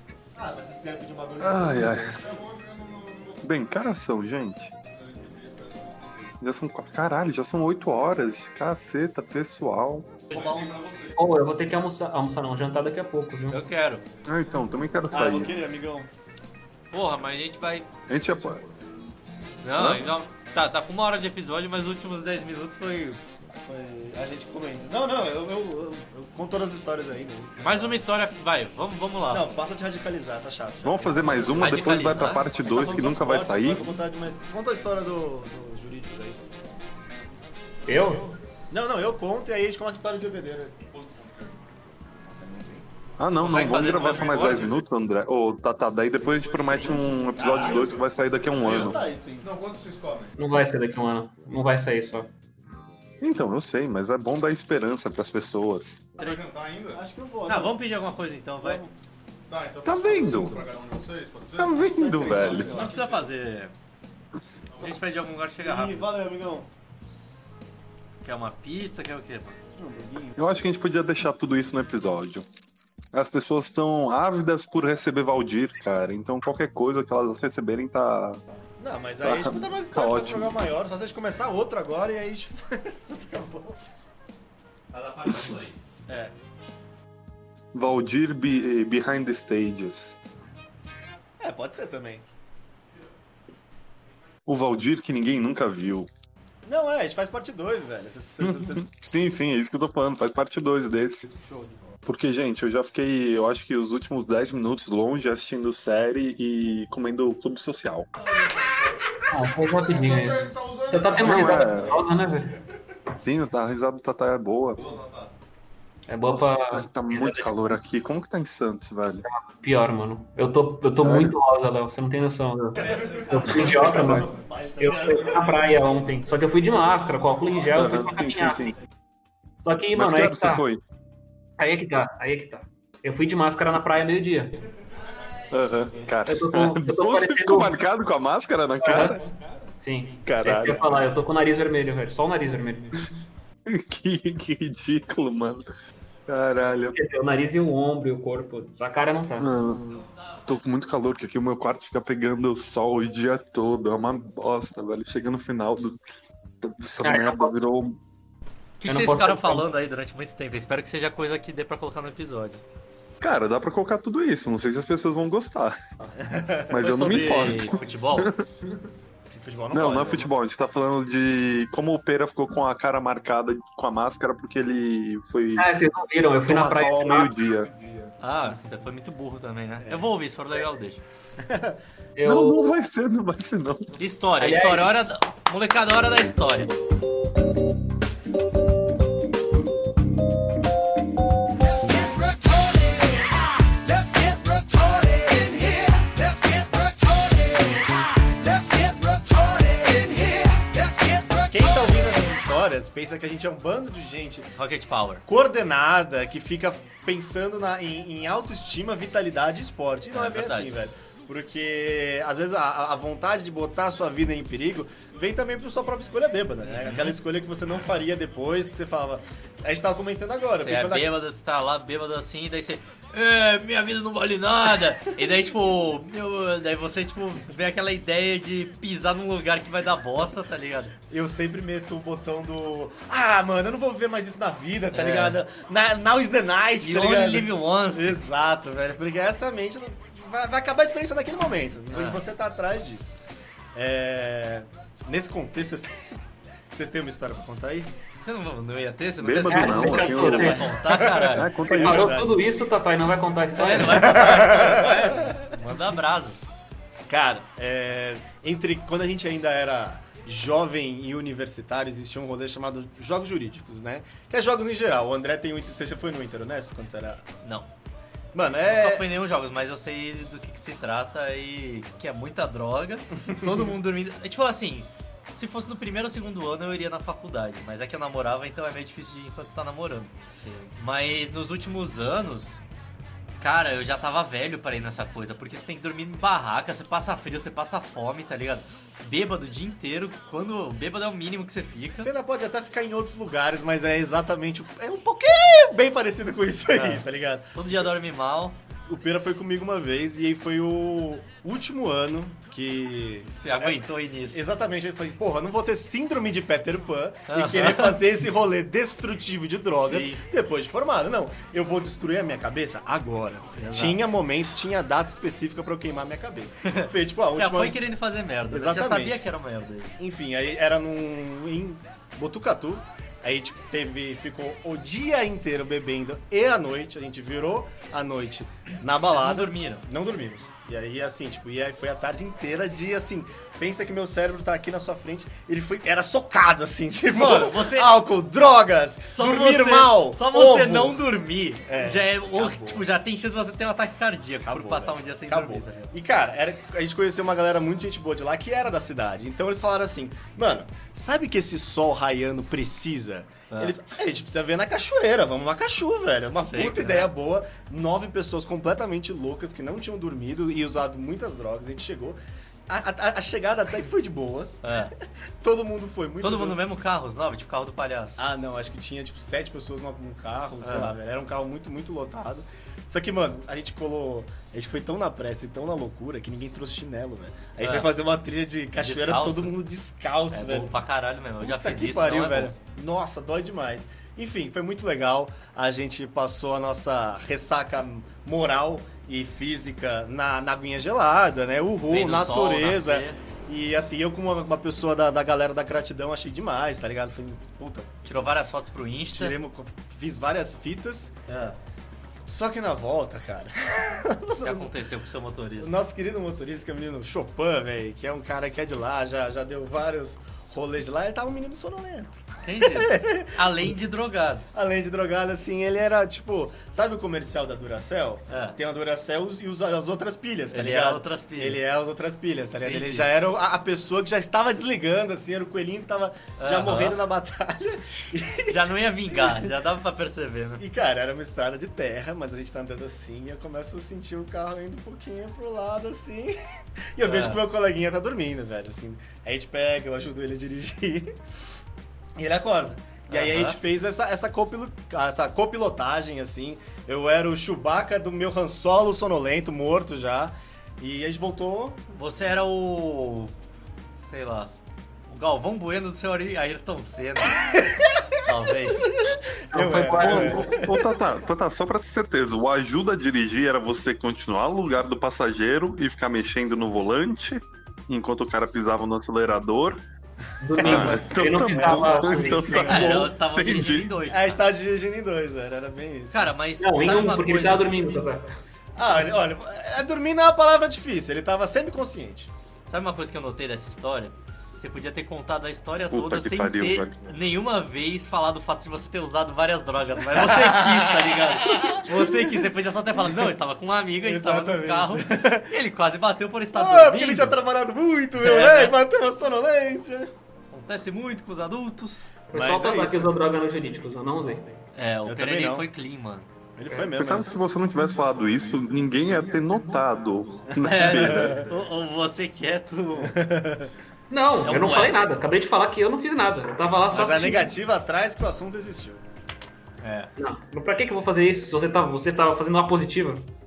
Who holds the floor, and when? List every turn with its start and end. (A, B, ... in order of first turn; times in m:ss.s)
0:00.4-0:02.4 A
0:01.4-0:02.2 B
0:02.1-0:03.5 C
0:03.4-0:04.7 B
0:04.8-0:06.4 C
0:06.4-0:10.1 B
0:10.3-0:11.2 C
0:10.3-0:10.7 A
0:11.2-0:13.6 D
0:13.5-0:14.0 E
0:14.2-0:15.5 B
0:15.1-0:16.1 A
0:16.9-0:17.9 E
0:18.1-0:18.6 B
0:18.3-0:18.7 C
0:19.6-0:23.2 E
0:19.8-0:20.1 B
0:23.6-0:28.0 A
0:27.6-0:29.5 E
0:29.3-0:36.4 A
0:30.8-0:33.9 B
0:31.6-0:32.4 E
0:37.9-0:38.2 D
0:37.9-0:38.2 C
0:38.7-0:40.8 A
0:40.8-0:41.7 C
0:42.4-0:42.8 A
0:43.2-0:49.0 B
0:43.4-0:44.8 E
0:43.7-0:44.8 C
0:46.3-0:50.3 C
0:46.6-0:48.0 A
0:48.6-0:49.5 A
0:50.4-0:52.3 D
0:53.2-0:56.1 B
0:56.2-0:57.0 C
0:56.9-0:57.8 A
0:57.5-0:58.8 E
0:58.6-0:58.9 A
0:59.5-1:03.3 C
0:59.8-1:00.6 B
1:01.6-1:02.7 B
1:01.8-1:03.0 A
1:02.6-1:03.7 E
1:04.7-1:05.0 C
1:04.8-1:06.1 E
1:05.6-1:06.7 A
1:08.2-1:09.6 E
1:09.8-1:10.4 A
1:10.4-1:12.5 B
1:13.1-1:18.4 B
1:18.8-1:23.8 A
1:19.2-1:20.6 B
1:24.9-1:25.8 E
1:25.3-1:25.6 B
1:26.1-1:26.3 A
1:27.7-1:30.2 B
1:31.4-1:32.2 A
1:34.5-1:36.1 B
1:36.6-1:38.9 A
1:38.4-1:41.3 B
1:42.1-1:48.1 B
1:48.2-1:52.2 C
1:49.3-1:52.5 D
1:51.2-1:52.1 B
1:53.2-1:54.8 B
1:54.8-1:55.3 C
1:56.1-1:57.5 D
1:56.3-1:59.3 B
1:59.2-2:04.3 D
2:00.9-2:01.4 B
2:02.8-2:05.7 A
2:04.8-2:08.8 D
2:07.7-2:08.8 B
2:09.6-2:10.6 D
2:10.0-2:10.8 B
2:11.6-2:14.6 D
2:15.5-2:19.2 B
2:16.3-2:17.8 D
2:18.8-2:19.2 D
2:19.8-2:23.0 D
2:20.2-2:21.1 B
2:23.7-2:25.7 B
2:26.3-2:27.0 B
2:26.9-2:29.5 D
2:29.4-2:36.0 B
2:36.6-2:38.0 B
2:37.0-2:37.5 D
2:38.8-2:42.6 E
2:38.9-2:39.7 D
2:43.2-2:45.8 B
2:46.2-2:46.7 A
2:46.7-2:48.5 B
2:46.8-2:48.3 E
2:49.3-2:50.3 A
2:49.7-2:55.7 B
2:55.6-2:57.3 D
2:56.4-2:57.7 B
2:57.8-2:58.1 C
2:58.2-3:01.0 E
2:59.8-3:00.1 A
3:01.4-3:01.8 A
3:02.2-3:02.6 D
3:02.2-3:04.0 B
3:04.0-3:06.7 E
3:04.4-3:04.9 D
3:21.5-3:24.5 A
3:24.6-3:25.2 E
3:25.3-3:41.1 A
3:30.1-3:30.7 E
3:36.7-3:37.1 E
3:40.6-3:51.0 E
3:51.1-4:03.2 A
3:54.9-3:55.4 E
3:56.8-3:58.2 E
4:01.9-4:02.2 E
4:03.8-4:06.2 A
4:06.7-4:07.9 A
4:08.2-4:11.5 E
4:09.2-4:12.3 B
4:09.5-4:10.7 D
4:10.8-4:12.4 A
4:11.7-4:14.2 D
4:13.5-4:16.4 E
4:13.6-4:15.5 A
4:17.1-4:27.2 A
4:28.3-4:29.1 A
4:28.7-4:42.6 E
4:43.4-4:52.1 E
4:52.0-4:57.5 A
4:56.7-4:58.6 E
4:58.9-5:03.8 A
5:03.4-5:04.4 E
5:04.3-5:17.8 A
5:07.3-5:08.0 E
5:09.8-5:10.2 E
5:13.6-5:14.0 E
5:16.6-5:20.0 E
5:18.5-5:19.2 A
5:20.0-5:41.0 A
5:29.1-5:29.8 E
5:37.1-5:38.0 E
5:39.0-5:45.9 E
5:41.7-5:42.8 A
5:44.4-6:02.2 A
5:53.5-5:53.8 E
5:56.3-5:57.1 E
6:02.7-6:04.7 A
6:04.6-6:04.9 E
6:05.4-6:06.6 A
6:06.2-6:08.2 E
6:08.2-6:20.7 A
6:10.6-6:10.9 E
6:17.6-6:17.9 E
6:18.8-6:19.6 E
6:20.3-6:22.5 E
6:21.4-6:37.9 A
6:31.9-6:33.2 E
6:38.0-6:39.4 E
6:39.1-6:41.1 A
6:41.3-6:41.6 E
6:42.3-6:44.7 A
6:44.4-6:45.8 E
6:45.6-6:53.4 A
6:52.4-6:54.5 E
6:54.5-7:08.6 A
6:58.3-6:58.6 E
7:00.5-7:01.6 E
7:02.6-7:03.1 E
7:06.4-7:07.0 E
7:08.5-7:10.6 E
7:09.1-7:09.5 A
7:10.6-7:16.4 A
7:17.0-7:21.1 A
7:17.0-7:17.4 E
7:22.2-7:31.8 A
7:23.1-7:23.6 E
7:31.9-7:33.3 E
7:34.0-7:34.5 E
7:35.1-7:37.4 E
7:37.4-7:37.9 A
7:38.2-7:38.9 E
7:39.1-7:40.6 A
7:39.5-7:40.5 D
7:39.9-7:49.8 B
7:50.4-7:53.1 D
7:50.6-7:52.8 A
7:50.6-7:54.0 B
7:52.4-7:54.4 E
7:54.1-7:56.3 A
7:56.1-7:58.0 E
7:56.6-7:58.3 D
7:58.8-8:02.3 A
8:02.7-8:17.4 E
8:05.9-8:07.2 B
8:10.2-8:12.3 A
8:14.0-8:15.5 A
8:16.5-8:20.1 A
8:18.2-8:18.8 E
8:20.5-8:22.1 E
8:22.3-8:24.6 D
8:22.3-8:23.1 A
8:24.8-8:26.3 E
8:25.1-8:25.7 A
8:26.6-8:27.5 A
8:26.9-8:31.4 B
8:28.1-8:30.2 C
8:30.6-8:31.5 A
8:30.6-8:33.2 E
8:33.0-8:33.7 A
8:34.1-8:37.5 D
8:34.4-8:35.1 E
8:36.9-8:39.0 A
8:39.8-8:40.1 E
8:40.2-8:43.3 D